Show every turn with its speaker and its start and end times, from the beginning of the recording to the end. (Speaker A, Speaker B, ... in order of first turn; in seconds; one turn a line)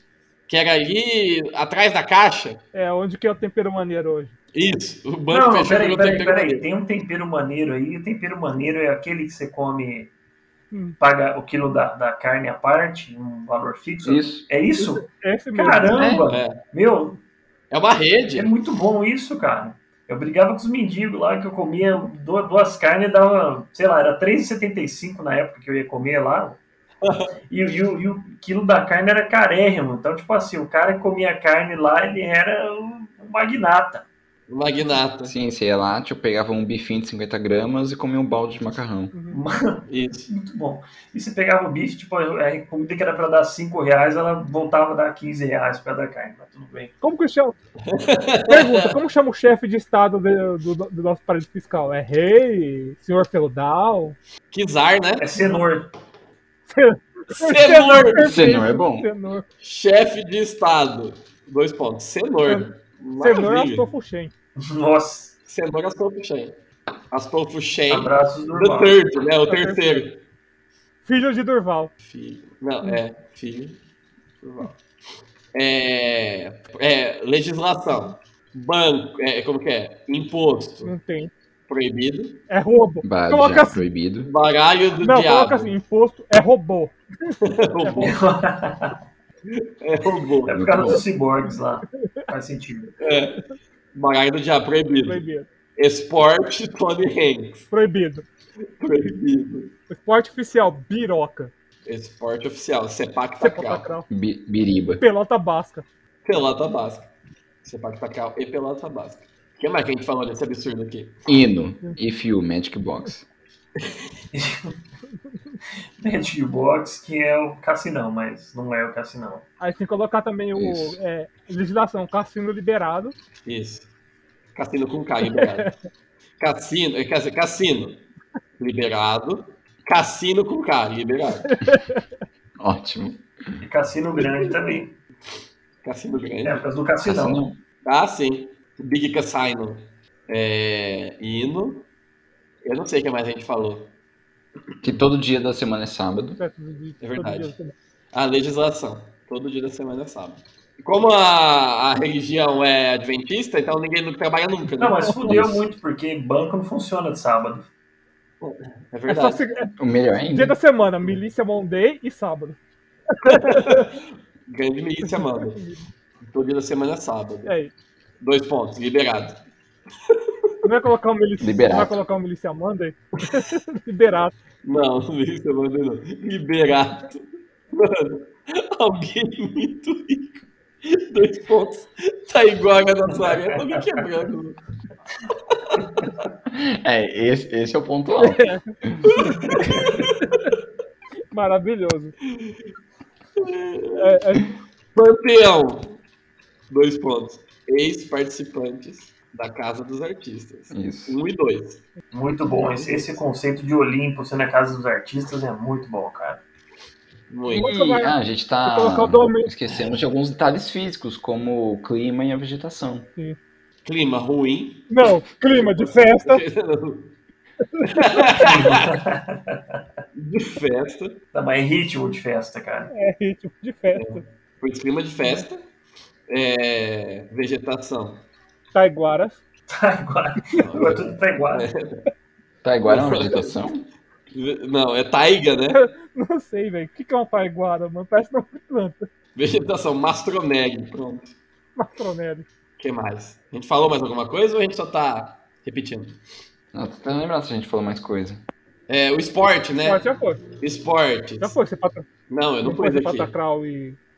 Speaker A: 0.5-2.6
Speaker B: 2.7-4.3
Speaker A: 4.5-6.7
Speaker C: 5.3-10.1
Speaker B: 10.7-11.0
Speaker C: 11.0-17.2
Speaker D: 14.0-14.5
Speaker B: 14.8-16.0
Speaker D: 15.9-16.2
Speaker A: 16.3-16.6
Speaker A: 17.7-18.5
Speaker C: 18.3-26.6
Speaker A: 27.0-27.3
Speaker C: 27.5-34.0
Speaker A: 34.5-35.3
Speaker D: 35.2-39.1
Speaker B: 39.1-39.4
Speaker C: 39.3-46.9
Speaker A: 39.9-40.3
Speaker B: 47.0-47.5
Speaker A: 47.8-49.0
Speaker B: 48.5-54.1
Speaker A: 54.5-55.3
Speaker C: 55.2-55.9
Speaker B: 56.7-59.4
Speaker A: 57.3-58.3
Speaker D: 58.2-59.1
Speaker A: 59.6-63.9
Speaker B: 63.2-64.3
Speaker C: 64.6-65.3
Speaker A: 65.5-66.5
Speaker A: 67.1-70.2
Speaker C: 67.9-69.0
Speaker B: 69.5-70.0
Speaker B: 71.0-71.9
Speaker A: 72.0-73.8
Speaker A: 74.4-74.8
Speaker A: 75.5-80.9
Speaker B: 80.8-81.3
Speaker A: 81.7-82.4
Speaker B: 82.5-83.8
Speaker D: 83.0-84.3
Speaker A: 84.2-85.7
Speaker B: 85.0-88.1
Speaker A: 87.4-88.2
Speaker C: 88.0-88.9
Speaker A: 89.5-91.0
Speaker C: 90.5-92.9
Speaker D: 90.5-91.0
Speaker A: 93.0-93.4
Speaker A: 93.9-95.2
Speaker B: 95.1-95.5
Speaker A: 95.8-97.7
Speaker B: 97.7-98.2
Speaker A: 98.8-99.7
Speaker B: 99.9-101.5
Speaker A: 101.8-103.9
Speaker B: 103.4-104.0
Speaker D: 104.1-105.0
Speaker B: 105.0-105.8
Speaker A: 106.2-107.1
Speaker A: 107.6-111.3
Speaker D: 111.3-113.2
Speaker C: 114.3-114.7
Speaker C: 116.0-119.4
Speaker B: 119.6-123.1
Speaker D: 120.5-121.0
Speaker A: 123.5-123.9
Speaker A: 124.5-125.7
Speaker B: 125.4-125.7
Speaker A: 126.4-128.0
Speaker A: 128.6-131.5
Speaker B: 131.5-132.0
Speaker D: 132.6-133.6
Speaker C: 133.6-134.9
Speaker A: 135.8-136.6
Speaker C: 136.4-137.4
Speaker D: 137.0-137.6
Speaker A: 137.8-141.8
Speaker A: 142.6-143.9
Speaker D: 144.8-146.4
Speaker B: 146.4-147.7
Speaker A: 147.0-147.5
Speaker A: 148.1-155.4
Speaker C: 154.8-157.7
Speaker D: 155.2-155.6
Speaker A: 158.4-159.4
Speaker B: 159.1-159.7
Speaker D: 159.8-160.6
Speaker B: 160.3-162.6
Speaker B: 163.1-163.9
Speaker A: 163.2-165.6
Speaker B: 165.1-165.8
Speaker A: 166.3-167.5
Speaker B: 167.4-167.7
Speaker A: 168.2-169.4
Speaker B: 170.6-174.3
Speaker D: 171.4-172.0
Speaker A: 174.6-184.6
Speaker C: 183.2-183.8
Speaker D: 186.5-189.1
Speaker B: 188.2-189.8
Speaker A: 189.1-190.1
Speaker B: 191.3-192.1
Speaker A: 193.4-194.2
Speaker B: 194.0-194.5
Speaker A: 194.9-196.0
Speaker A: 196.7-201.8
Speaker D: 200.7-201.2
Speaker C: 202.1-206.4
Speaker A: 202.5-203.2
Speaker A: 207.3-207.7
Speaker B: 207.5-209.5
Speaker D: 207.6-213.1
Speaker A: 213.8-217.1
Speaker B: 214.9-216.4
Speaker B: 217.7-218.5
Speaker A: 217.8-218.9
Speaker C: 218.4-219.6
Speaker A: 220.1-221.2
Speaker C: 221.3-222.9
Speaker B: 222.9-224.2
Speaker A: 223.9-225.6
Speaker A: 226.3-228.2
Speaker B: 228.7-229.4
Speaker C: 229.7-231.7
Speaker A: 230.6-232.0
Speaker D: 232.6-233.9
Speaker A: 232.8-233.6
Speaker A: 234.3-235.8
Speaker B: 235.7-239.1
Speaker A: 239.3-241.3
Speaker B: 241.8-242.4
Speaker A: 242.8-246.2
Speaker D: 246.7-248.4
Speaker A: 248.9-250.0
Speaker B: 249.8-250.4
Speaker A: 250.6-251.5
Speaker B: 251.4-252.1
Speaker A: 252.3-253.3
Speaker B: 252.6-254.0